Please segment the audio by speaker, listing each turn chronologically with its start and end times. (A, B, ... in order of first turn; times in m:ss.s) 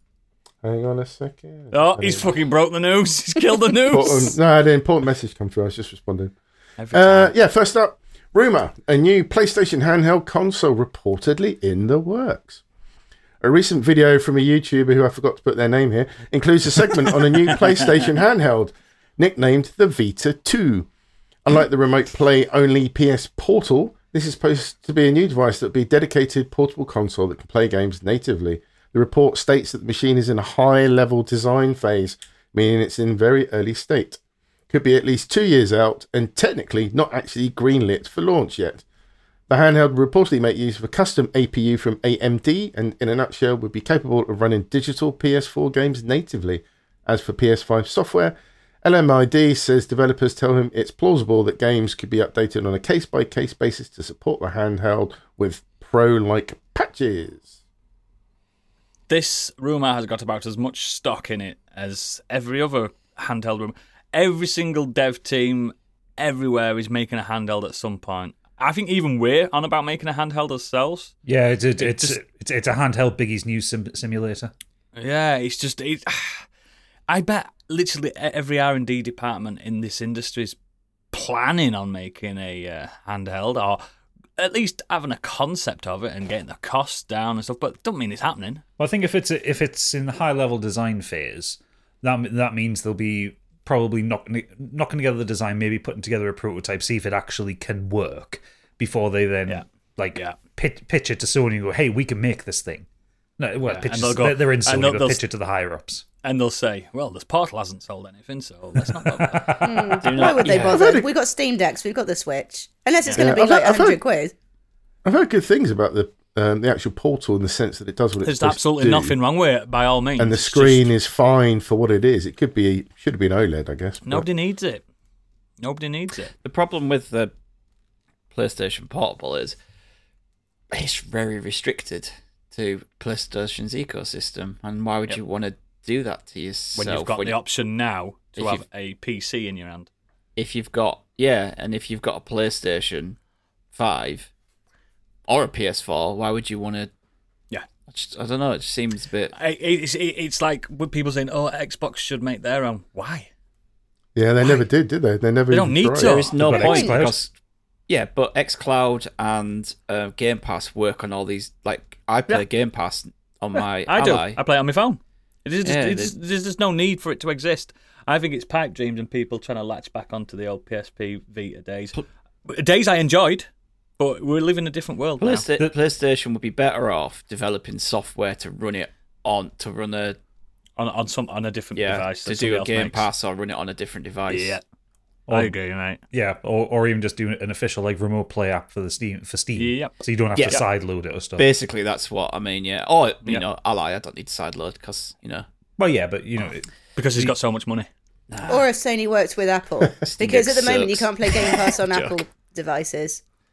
0:00.6-0:02.3 A
0:01.7-0:04.4 B
0:03.9-0:06.3 A
0:06.8-0:07.3 B
0:06.9-0:12.6 A
0:13.4-0:20.9 A
0:21.4-0:38.8 A
0:39.5-0:57.5 A
0:59.1-1:11.1 B
1:11.2-1:14.5 C
1:11.8-1:12.2 B
1:15.0-1:16.5 B
1:17.1-1:20.6 B
1:21.1-1:23.8 B
1:24.4-1:28.6 B
1:28.8-1:42.8 C
1:39.5-1:40.4 B
1:43.4-1:46.0 C
1:43.6-1:45.2 B
1:46.2-1:50.4 B
1:49.0-1:50.0 C
1:49.6-1:54.3 D
1:50.0-1:50.9 E
1:50.1-1:51.1 A
1:53.1-1:54.0 A
1:55.0-1:59.1 A
1:58.2-2:00.9 B
2:00.2-2:04.2 A
2:04.0-2:04.8 B
2:05.6-2:06.3 B
2:06.4-2:07.3 E
2:08.3-2:09.6 E
2:10.7-2:17.4 E
2:16.8-2:19.9 B
2:18.4-2:18.6 E
2:20.4-2:23.2 E
2:23.7-2:24.3 E
2:25.3-2:26.9 E
2:27.9-2:29.3 E
2:29.3-2:33.3 B
2:34.1-2:36.2 A
2:35.5-2:36.9 B
2:36.0-2:37.3 E
2:36.4-2:37.2 C
2:36.6-2:36.9 D
2:37.9-2:44.4 E
2:43.8-2:52.0 B
2:45.6-2:46.1 E
2:52.5-2:53.5 B
2:54.0-2:55.4 B
2:55.2-3:00.2 E
3:00.8-3:03.1 B
3:01.7-3:04.6 E
3:04.3-3:04.6 B
3:05.3-3:05.5 C
3:05.3-3:06.0 B
3:06.1-3:11.5 C
3:09.6-3:10.6 B
3:10.4-3:10.6 E
3:11.4-3:15.4 E
3:15.8-3:17.3 C
3:17.0-3:17.9 B
3:18.3-3:18.7 E
3:18.5-3:23.2 D
3:20.0-3:22.2 E